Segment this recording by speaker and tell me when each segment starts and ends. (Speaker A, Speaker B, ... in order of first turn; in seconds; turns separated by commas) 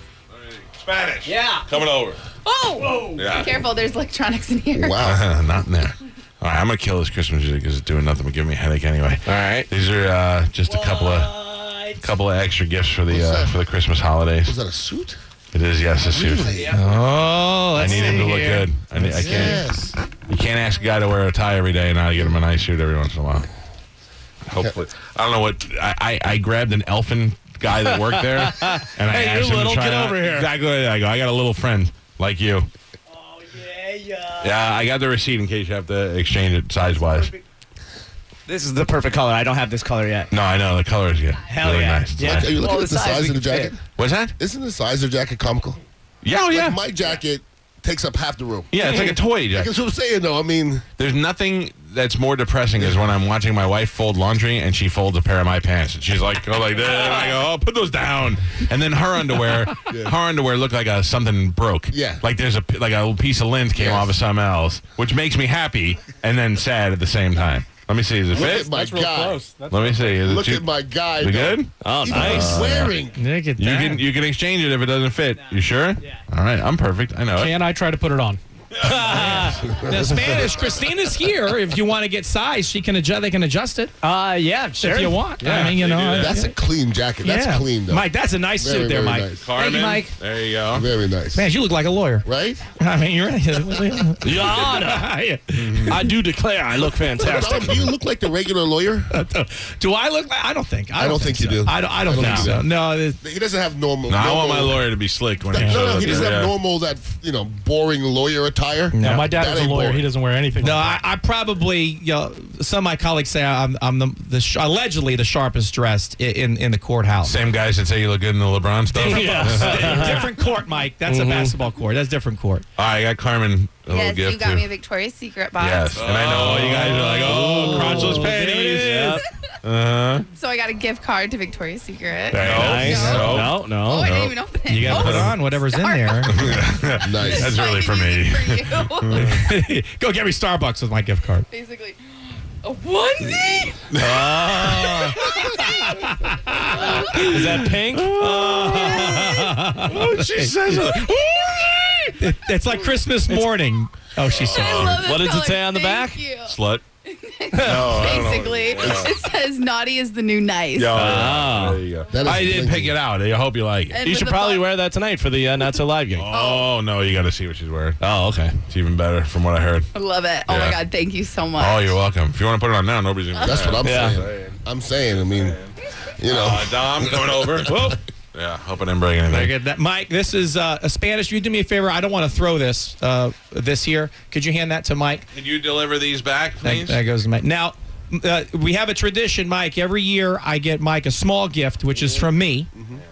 Speaker A: 0.3-2.2, Speaker B: 1.2-1.7, Speaker C: 2.4-5.0, Speaker B: 2.7-3.3, Speaker A: 3.1-3.6, Speaker D: 4.8-5.2, Speaker A: 5.0-11.3, Speaker E: 9.2-9.7, Speaker B: 10.6-12.1, Speaker A: 12.0-14.6, Speaker D: 13.1-13.6, Speaker D: 14.4-15.2, Speaker A: 15.5-16.5, Speaker D: 16.0-16.8, Speaker B: 16.4-16.9, Speaker F: 16.9-19.6, Speaker E: 17.7-18.5, Speaker A: 17.7-19.6, Speaker D: 19.1-20.0, Speaker A: 20.3-23.5, Speaker A: 24.5-32.7, Speaker D: 24.5-24.8, Speaker E: 27.9-30.5, Speaker B: 33.1-34.6, Speaker A: 34.4-37.3, Speaker B: 36.8-37.4, Speaker B: 38.5-40.3, Speaker A: 40.3-42.5, Speaker B: 41.4-43.7, Speaker D: 42.2-43.8, Speaker A: 44.0-44.4, Speaker D: 44.4-45.8, Speaker A: 46.2-46.8, Speaker D: 46.4-50.9, Speaker A: 48.7-49.7, Speaker A: 51.0-68.7, Speaker D: 59.9-60.1, Speaker D: 61.9-62.2, Speaker D: 63.7-64.2, Speaker D: 68.3-69.5, Speaker G: 68.3-70.2, Speaker A: 69.7-73.0, Speaker D: 70.2-73.2, Speaker E: 71.8-72.8, Speaker F: 73.1-74.0, Speaker A: 73.6-77.6, Speaker B: 75.3-76.2, Speaker G: 77.3-78.4, Speaker B: 78.8-79.5, Speaker A: 78.8-79.4, Speaker F: 79.1-83.9, Speaker E: 79.1-79.5, Speaker D: 79.6-80.7, Speaker B: 84.0-85.1, Speaker F: 84.8-86.5, Speaker E: 84.8-86.3, Speaker A: 85.7-86.4, Speaker D: 86.1-89.4, Speaker F: 87.2-89.3, Speaker A: 89.4-90.9, Speaker B: 89.5-90.1, Speaker D: 90.7-91.5, Speaker F: 91.3-96.0, Speaker D: 92.2-92.6, Speaker E: 94.2-95.1, Speaker A: 95.5-96.0, Speaker E: 95.8-97.9, Speaker D: 96.9-99.1, Speaker F: 99.1-103.2, Speaker D: 101.0-104.9, Speaker E: 102.2-102.5, Speaker A: 104.1-106.5, Speaker F: 105.5-106.3, Speaker D: 105.6-110.1, Speaker F: 108.9-109.3, Speaker G: 109.0-111.0, Speaker F: 110.6-117.4, Speaker A: 117.2-120.2, Speaker F: 118.9-122.6, Speaker E: 119.0-120.3, Speaker E: 121.0-121.5, Speaker A: 122.8-124.7, Speaker C: 123.9-126.2, Speaker A: 125.6-130.2, Speaker E: 126.0-129.2, Speaker F: 126.4-129.0, Speaker C: 130.3-139.4, Speaker E: 132.3-134.2, Speaker A: 132.3-135.3, Speaker F: 132.7-133.5, Speaker F: 134.7-136.5, Speaker A: 136.3-139.4, Speaker D: 137.0-137.6, Speaker F: 139.2-141.5, Speaker C: 141.5-142.0, Speaker C: 142.6-143.8, Speaker A: 143.9-145.0, Speaker E: 144.0-145.1, Speaker F: 144.3-147.4, Speaker C: 146.7-147.2, Speaker A: 146.9-152.2, Speaker E: 147.2-148.7, Speaker F: 148.1-151.0, Speaker F: 152.2-154.9, Speaker E: 153.3-153.6, Speaker A: 154.3-155.0, Speaker C: 154.4-161.1, Speaker E: 154.9-156.2, Speaker A: 156.4-156.8, Speaker E: 157.6-158.1, Speaker A: 157.6-159.1, Speaker D: 158.8-159.1, Speaker A: 160.7-164.0, Speaker E: 160.9-161.8, Speaker D: 162.1-163.0, Speaker C: 163.9-164.7, Speaker E: 164.0-166.3, Speaker A: 166.2-169.9, Speaker C: 166.3-166.7, Speaker E: 168.0-168.5, Speaker C: 169.9-172.0, Speaker A: 170.4-170.8, Speaker A: 171.6-174.5, Speaker D: 173.4-175.6, Speaker E: 173.8-174.2, Speaker A: 175.2-175.7, Speaker D: 176.2-177.9, Speaker A: 176.2-179.5, Speaker F: 177.7-178.0, Speaker F: 179.3-185.2, Speaker A: 185.3-187.0, Speaker F: 186.6-192.7, Speaker D: 192.7-193.0